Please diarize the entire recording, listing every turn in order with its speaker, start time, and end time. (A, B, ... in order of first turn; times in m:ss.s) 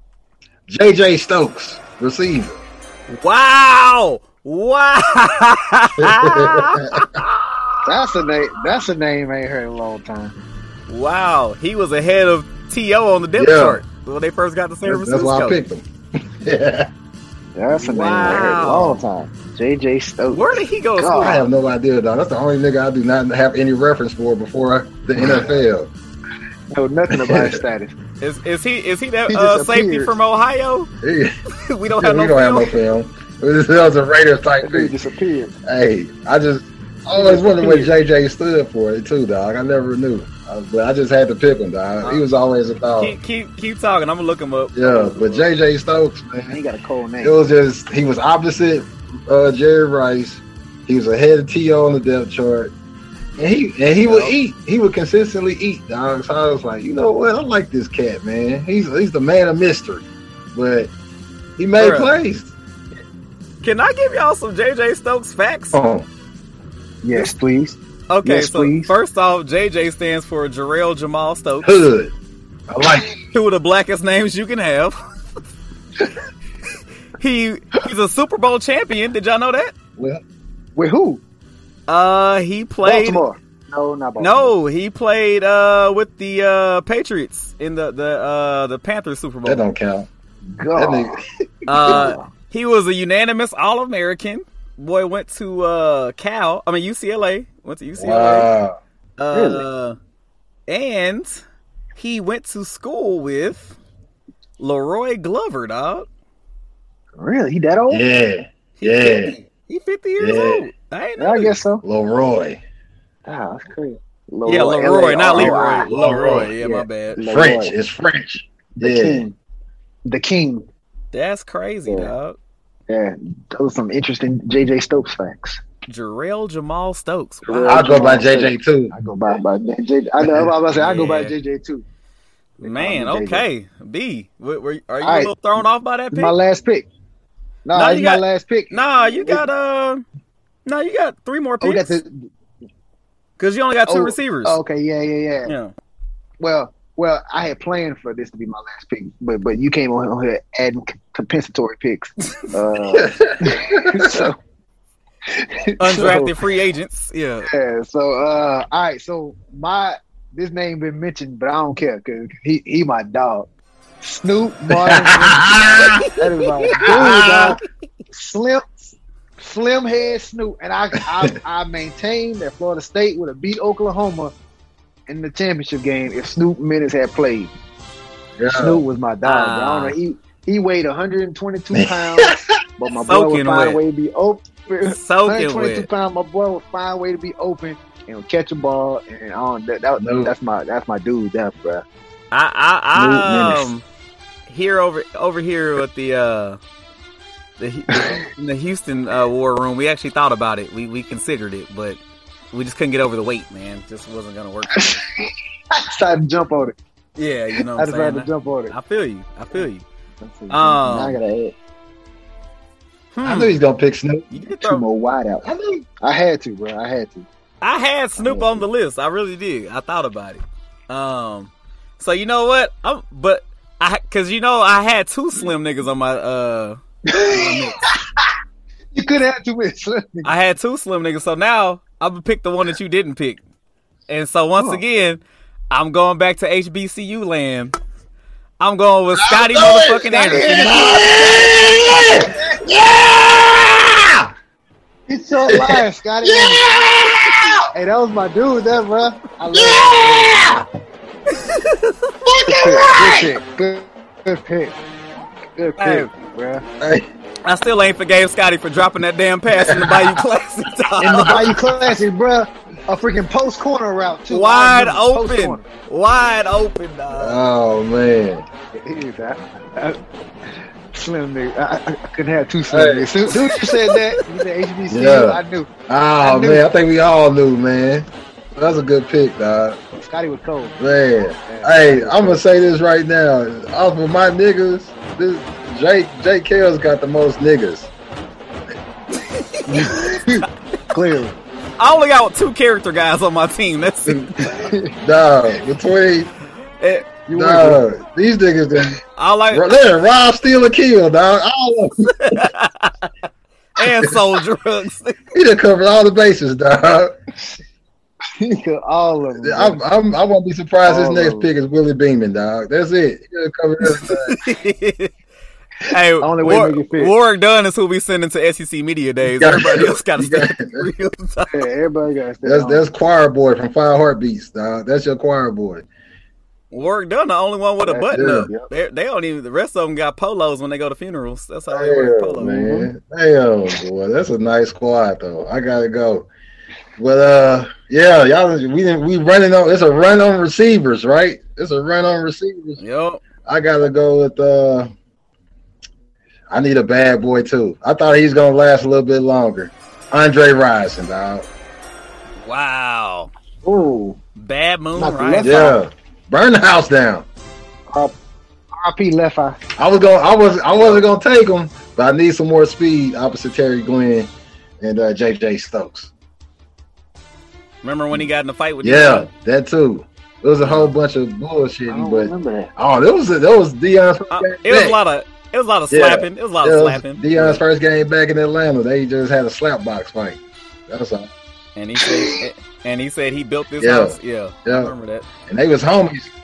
0:00.7-0:02.6 A
0:03.1-0:07.6 B
0:06.0-0:07.2 A
0:07.8-0:10.4 C
0:10.9-0:15.6 B
0:13.4-0:13.8 A
0:14.8-0:16.9 A
0:17.6-0:21.4 C
0:17.8-0:19.0 B
0:20.3-0:21.4 B
0:21.2-0:25.9 A
0:26.7-0:27.9 C
0:27.1-0:27.6 A
0:28.2-0:30.9 B
0:29.3-0:30.2 C
0:31.0-0:31.4 A
0:31.6-0:32.8 B
0:32.0-0:35.0 A
0:34.6-0:35.6 C
0:35.6-0:43.2 A
0:37.2-0:37.7 C
0:37.5-0:37.9 B
0:43.0-0:45.5 B
0:44.8-0:46.6 A
0:46.5-0:47.4 C
0:47.2-0:52.7 A
0:53.4-1:00.9 A
0:54.1-0:54.3 B
1:01.6-1:02.5 A
1:01.8-1:02.1 B
1:03.6-1:05.8 B
1:05.7-1:06.1 A
1:07.0-1:08.9 C
1:08.1-1:11.8 B
1:11.6-1:12.1 A
1:12.7-1:13.1 A
1:13.3-1:15.0 B
1:17.2-1:19.7 B
1:20.0-1:20.2 A
1:20.8-1:21.2 C
1:21.9-1:23.2 B
1:22.8-1:24.6 C
1:24.2-1:29.6 B
1:29.4-1:30.1 A
1:30.5-1:32.3 C
1:30.8-1:31.2 A
1:31.7-1:38.5 B
1:38.0-1:38.8 A
1:39.2-1:40.0 B
1:39.3-1:39.6 C
1:40.7-1:41.4 B
1:42.0-1:43.8 B
1:44.6-1:46.1 B
1:47.2-1:48.0 C
1:47.9-1:49.4 A
1:48.8-1:51.5 B
1:50.2-1:50.7 A
1:51.2-1:51.8 C
1:51.8-1:52.6 A
1:53.3-1:57.8 C
1:54.4-1:57.2 B
1:55.4-1:56.5 A
1:57.2-1:59.2 A
1:58.8-1:59.4 C
2:00.1-2:00.7 C
2:01.1-2:02.4 B
2:01.9-2:02.1 C
2:02.9-2:05.6 C
2:05.9-2:08.0 B
2:07.5-2:11.8 C
2:07.7-2:08.9 A
2:10.7-2:11.3 B
2:12.6-2:13.5 C
2:12.6-2:16.4 B
2:15.0-2:15.5 C
2:16.1-2:16.9 C
2:17.7-2:19.5 C
2:17.7-2:20.0 B
2:20.6-2:22.0 B
2:21.6-2:22.3 C
2:23.4-2:24.6 B
2:23.9-2:25.5 C
2:25.5-2:25.7 B
2:26.4-2:34.4 C
2:32.9-2:34.3 A
2:35.3-2:36.3 C
2:35.8-2:37.5 B
2:37.4-2:43.5 C
2:44.0-2:47.6 C
2:44.7-2:46.1 A
2:45.8-2:46.9 B
2:46.8-2:47.6 A
2:48.1-2:54.3 C
2:55.1-2:57.5 C
2:58.4-2:58.8 A
2:58.5-3:11.8 C
2:59.2-3:00.0 B
3:01.7-3:02.5 A
3:03.0-3:03.8 B
3:04.8-3:05.9 B
3:10.0-3:10.3 A
3:12.3-3:13.8 B
3:13.0-3:13.6 C
3:14.5-3:16.6 B
3:17.6-3:22.0 B
3:17.9-3:18.2 C
3:22.5-3:25.0 B
3:24.7-3:26.8 C
3:27.2-3:29.8 B
3:27.6-3:28.7 C
3:30.2-3:31.6 C
3:30.5-3:31.2 B
3:33.1-3:33.6 B
3:33.2-3:34.3 A
3:34.3-3:34.8 B
3:34.6-3:35.5 C
3:35.4-3:35.9 A
3:36.0-3:37.3 C
3:37.6-3:47.8 B
3:38.2-3:38.7 C
3:47.1-3:48.3 C
3:48.9-3:50.3 C
3:50.2-3:53.4 B
3:54.1-3:57.7 B
3:54.6-3:54.8 C
3:58.6-4:01.0 B
3:59.1-4:04.3 A
4:00.1-4:02.6 C
4:05.1-4:06.6 C
4:05.5-4:07.7 A
4:07.7-4:10.6 C
4:09.5-4:10.6 A
4:11.3-4:12.0 B
4:12.2-4:13.4 A
4:12.5-4:14.8 C
4:15.4-4:16.6 C
4:15.8-4:16.1 B
4:16.8-4:17.1 A
4:17.4-4:21.5 B
4:19.5-4:20.2 A
4:21.0-4:25.7 C
4:21.0-4:21.8 A
4:24.3-4:27.4 B
4:27.1-4:28.5 A
4:28.7-4:35.7 C
4:32.7-4:33.1 A
4:33.7-4:34.0 B
4:34.9-4:39.8 A
4:36.2-4:36.6 C
4:40.0-4:40.8 C
4:40.8-4:47.9 A
4:41.5-4:42.4 C
4:49.3-4:49.8 B
4:49.7-4:51.4 C
4:51.8-4:54.5 B
4:54.1-4:55.0 C
4:55.0-4:56.3 A
4:56.8-4:57.2 B
4:57.3-4:57.8 C
4:57.3-5:02.5 A
4:59.2-4:59.7 B
5:02.2-5:03.1 B
5:03.8-5:05.2 B
5:05.3-5:07.2 A
5:08.4-5:09.8 C
5:09.4-5:14.4 A
5:10.8-5:11.5 C
5:14.1-5:15.1 B
5:15.9-5:21.7 B
5:16.2-5:17.1 C
5:19.2-5:20.9 A
5:21.5-5:22.8 C
5:22.4-5:25.9 A
5:26.7-5:32.6 B
5:27.8-5:28.7 C
5:28.1-5:28.5 A
5:31.7-5:36.3 A
5:32.4-5:32.9 C
5:37.0-5:42.8 A
5:42.8-5:43.2 B
5:43.4-5:44.9 A
5:46.5-5:51.5 A
5:52.4-5:53.3 B
5:53.6-5:54.2 C
5:54.4-5:55.7 B
5:55.0-5:55.8 C
5:55.4-5:57.3 A
5:57.9-5:58.2 C
5:58.8-5:59.6 C
5:59.8-6:06.1 A
6:07.8-6:09.3 B
6:08.8-6:15.0 A
6:11.9-6:12.7 C
6:14.3-6:17.2 B
6:15.9-6:21.3 A
6:21.8-6:25.3 B
6:23.8-6:24.9 A
6:25.5-6:26.3 A